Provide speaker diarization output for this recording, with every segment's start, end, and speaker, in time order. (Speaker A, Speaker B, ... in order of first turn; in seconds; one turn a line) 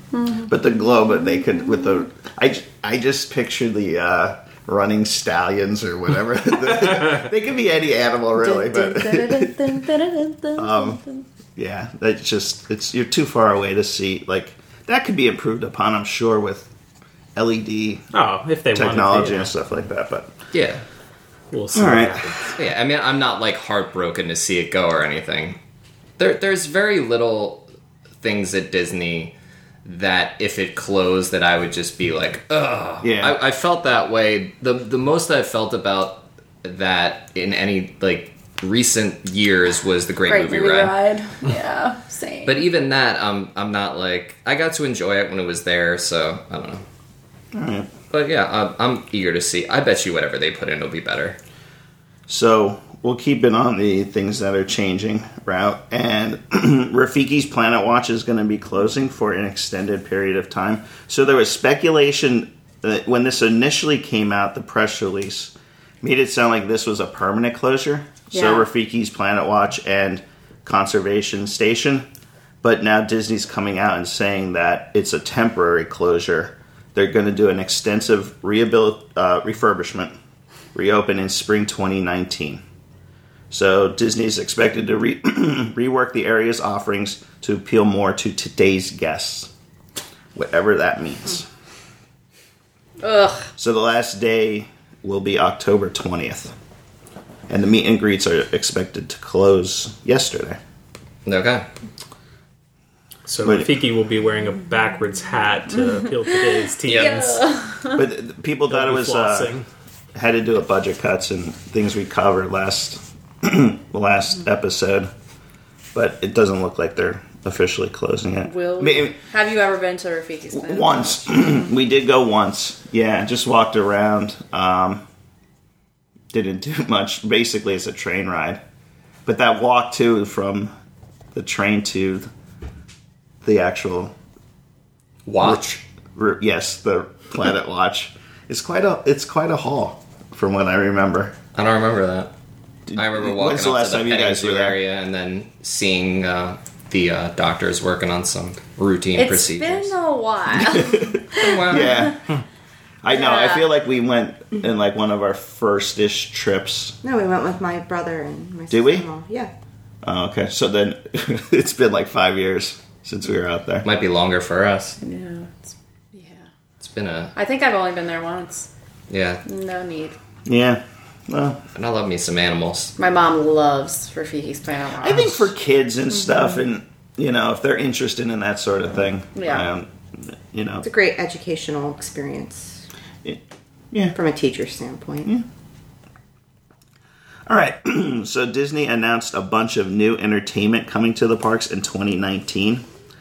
Speaker A: 0.1-0.5
Speaker B: 0.4-9.7
Speaker A: 8.4-11.2
Speaker B: 10.6-11.0
Speaker B: 11.6-16.7
Speaker B: 17.3-18.0
Speaker C: 18.1-19.5
Speaker B: 18.7-20.3
Speaker D: 20.5-20.8
Speaker C: 21.5-22.5
Speaker B: 21.7-22.4
Speaker D: 22.5-25.6
Speaker D: 26.2-27.7
Speaker D: 28.2-40.9
Speaker B: 33.0-33.4
Speaker A: 40.3-42.6
Speaker D: 42.4-46.8
Speaker B: 47.5-47.9
Speaker D: 48.1-51.4
Speaker B: 52.3-72.0
Speaker A: 68.3-68.7
Speaker B: 72.6-80.1
Speaker B: 80.7-82.6
Speaker B: 83.5-89.5
Speaker B: 90.3-91.5
Speaker A: 93.0-93.5
Speaker B: 93.6-96.5
Speaker B: 97.5-100.6
Speaker D: 101.2-101.7
Speaker C: 103.2-107.4
Speaker B: 103.4-103.7
Speaker A: 106.2-108.0
Speaker D: 106.8-107.2
Speaker B: 107.9-109.5
Speaker C: 108.7-109.7
Speaker B: 110.1-115.1
Speaker B: 115.9-119.2
Speaker A: 118.5-121.5
Speaker B: 120.5-125.0
Speaker B: 126.3-128.6
Speaker B: 129.2-130.7
Speaker B: 131.3-132.3
Speaker B: 133.4-134.1
Speaker D: 135.2-135.7
Speaker B: 135.4-141.4
Speaker D: 141.5-142.3
Speaker B: 142.9-144.8
Speaker D: 142.9-149.9
Speaker A: 149.2-152.1
Speaker B: 150.6-152.2
Speaker D: 151.3-152.0
Speaker B: 153.0-157.0
Speaker A: 153.1-153.7
Speaker E: 157.0-159.5
Speaker B: 158.7-159.1
Speaker B: 160.0-163.8
Speaker D: 163.8-165.0
Speaker A: 165.0-166.4
Speaker D: 166.8-167.3
Speaker A: 167.3-168.7
Speaker D: 169.1-169.4
Speaker A: 169.4-170.2
Speaker B: 170.4-171.6
Speaker D: 171.7-172.9
Speaker A: 173.0-175.4
Speaker B: 175.0-180.8
Speaker A: 179.3-179.7
Speaker E: 180.8-182.8
Speaker E: 184.1-185.3
Speaker B: 187.5-192.8